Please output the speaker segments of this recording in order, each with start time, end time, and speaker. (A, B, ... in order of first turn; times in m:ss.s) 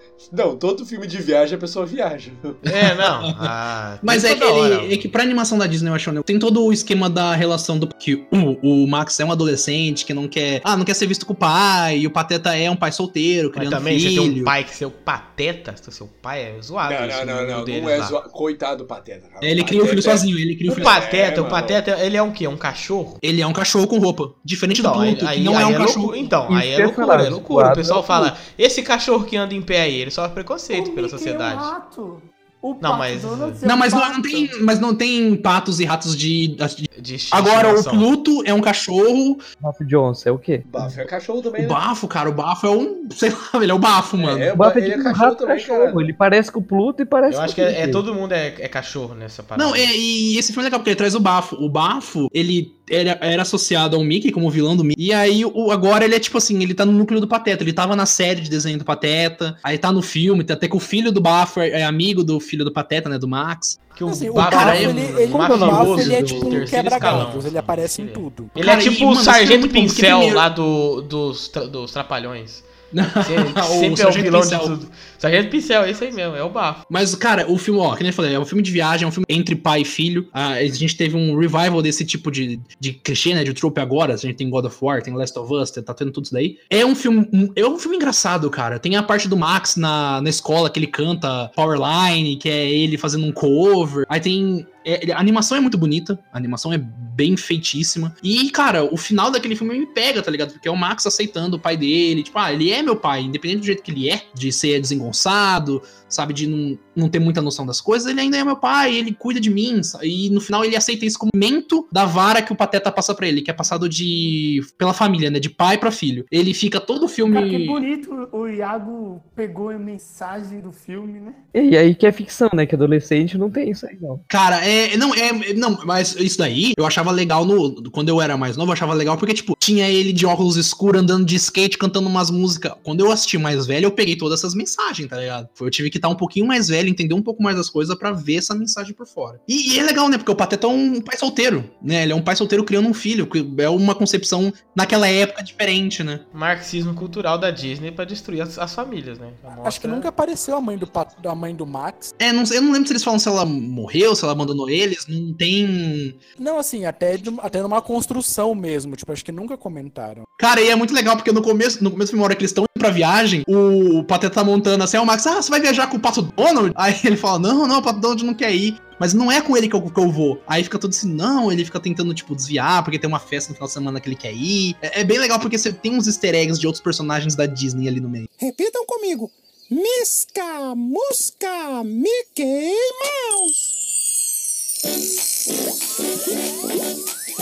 0:00.3-0:02.6 A
0:02.6-0:05.1 B
0:04.0-0:14.5 C
0:13.6-0:18.2 B
0:16.8-0:21.8 A
0:19.4-0:20.9 C
0:20.7-0:23.2 B
0:23.2-0:26.2 C
0:24.7-0:31.7 B
0:26.5-0:28.3 D
0:30.7-0:34.6 E
0:32.8-0:33.6 B
0:33.6-0:39.4 C
0:37.0-0:38.1 B
0:39.6-0:40.7 D
0:40.7-0:41.8 A
0:41.6-0:44.5 C
0:44.2-0:46.0 A
0:44.5-0:48.0 D
0:47.3-0:49.9 B
0:49.6-1:03.8 C
1:04.0-1:12.7 B
1:04.0-1:08.6 F
1:04.5-1:05.3 C
1:05.6-1:06.5 D
1:08.6-1:10.4 C
1:12.9-1:14.8 C
1:13.2-1:16.8 B
1:16.9-1:57.8 C
1:57.3-2:01.4 E
2:01.5-2:04.2 D
2:04.3-2:26.2 C
2:26.3-2:30.1 B
2:29.6-2:32.1 F
2:32.2-2:36.2 C
2:36.4-2:40.3 F
2:40.4-2:58.3 C
2:58.4-3:03.7 G